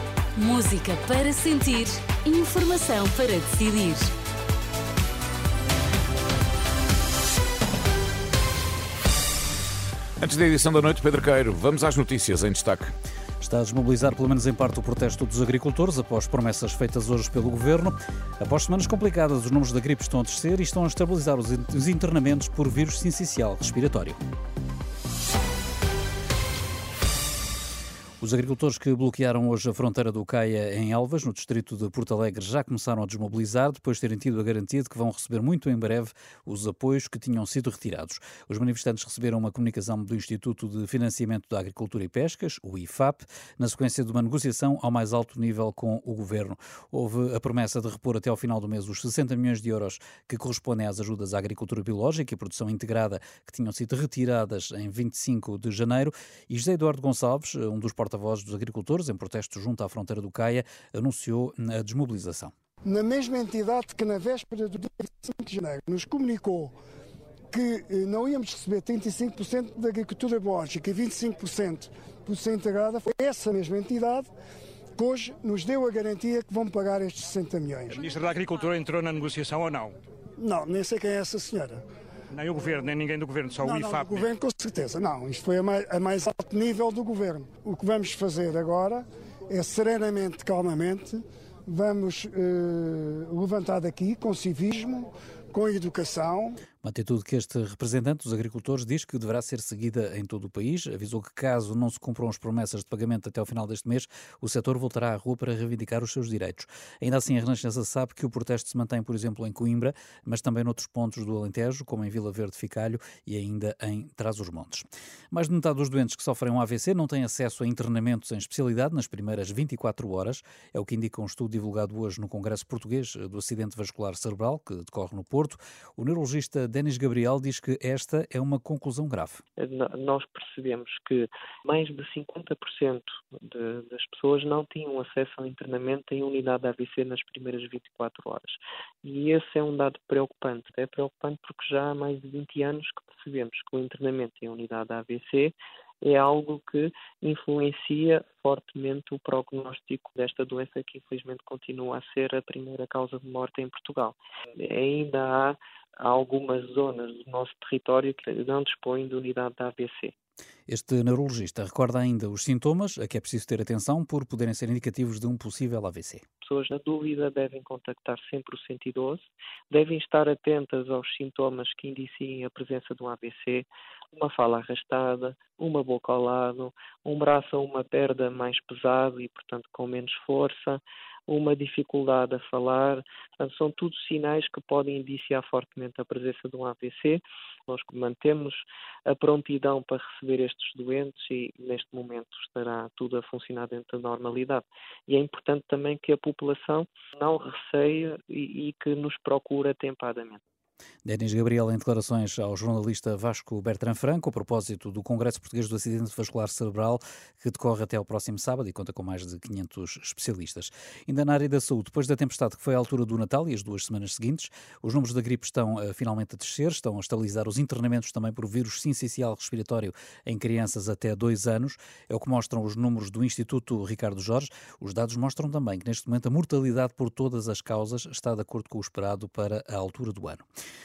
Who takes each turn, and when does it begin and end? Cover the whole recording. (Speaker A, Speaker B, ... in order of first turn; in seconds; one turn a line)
Speaker A: 0.3-4.1
Speaker B: 10.2-12.9
Speaker C: 13.4-24.2
Speaker C: 28.2-62.5
Speaker D: 62.8-66.7
Speaker D: 67.5-74.3
Speaker D: 75.0-77.9
Speaker E: 77.9-80.0
Speaker D: 80.4-81.8
Speaker E: 82.3-84.2
Speaker D: 83.6-96.6
Speaker C: 96.8-129.4
Speaker F: 129.6-160.1
Speaker C: 160.7-166.2
Speaker F: 166.4-200.4
Speaker C: 201.0-230.4